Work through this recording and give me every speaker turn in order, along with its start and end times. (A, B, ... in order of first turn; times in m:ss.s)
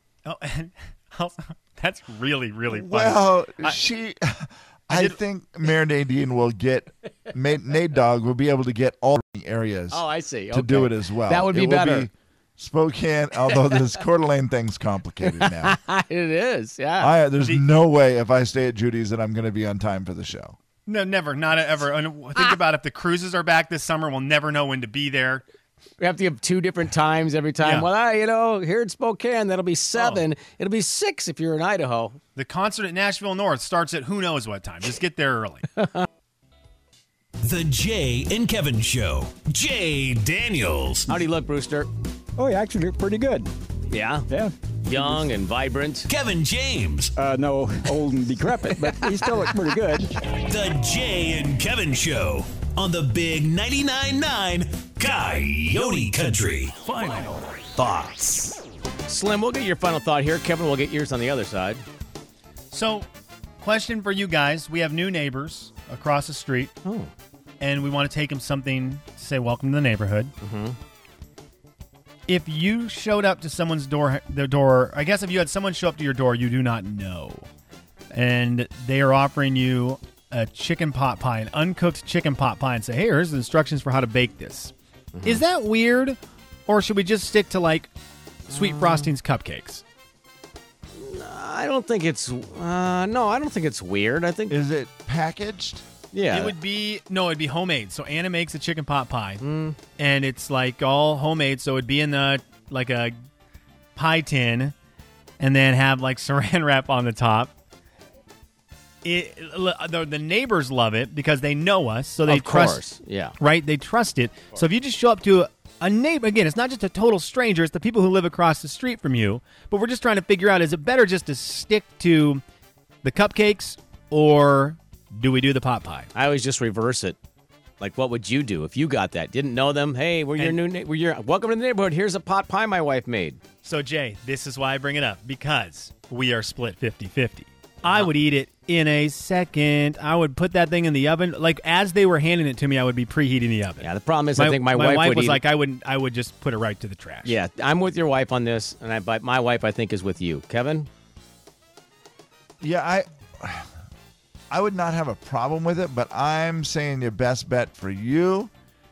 0:00.2-0:03.8 A
0:02.7-0:15.8 B
0:04.9-0:05.2 A
0:09.9-0:12.1 C
0:15.2-0:17.1 C
0:17.0-0:20.6 B
0:20.8-0:25.4 A
0:26.0-0:32.2 C
0:27.6-0:27.9 A
0:29.9-0:30.2 A
0:32.4-0:35.6 A
0:35.8-0:36.0 C
0:37.4-0:41.1 D
0:41.1-0:41.9 C
0:42.4-0:43.5 E
0:43.9-0:44.3 C
0:44.3-0:44.5 E
0:44.8-0:46.1 C
0:46.1-0:47.1 D
0:47.2-0:50.2 E
0:50.3-0:57.3 D
0:57.8-0:58.3 D
0:58.0-0:58.5 C
0:59.1-1:01.8 C
1:02.7-1:03.1 A
1:03.6-1:06.8 A
1:06.8-1:07.1 C
1:07.6-1:10.3 A
1:10.4-1:10.8 C
1:12.3-1:17.4 A
1:18.1-1:27.9 A
1:25.1-1:25.4 C
1:28.5-1:29.8 A
1:28.5-1:29.1 C
1:30.9-1:34.6 C
1:34.5-1:35.8 B
1:36.1-1:36.5 C
1:36.3-1:39.4 A
1:39.4-1:39.8 C
1:39.9-1:43.1 A
1:44.0-1:44.7 A
1:45.4-1:47.5 A
1:49.0-1:52.8 A
1:52.2-1:53.4 C
1:53.4-2:02.4 A
2:03.0-2:06.1 A
2:06.1-2:07.2 C
2:07.8-2:13.4 C
2:13.6-2:27.3 A
2:17.8-2:18.1 C
2:23.8-2:25.4 C
2:27.2-2:30.9 C
2:32.6-2:33.7 B
2:34.5-2:38.5 B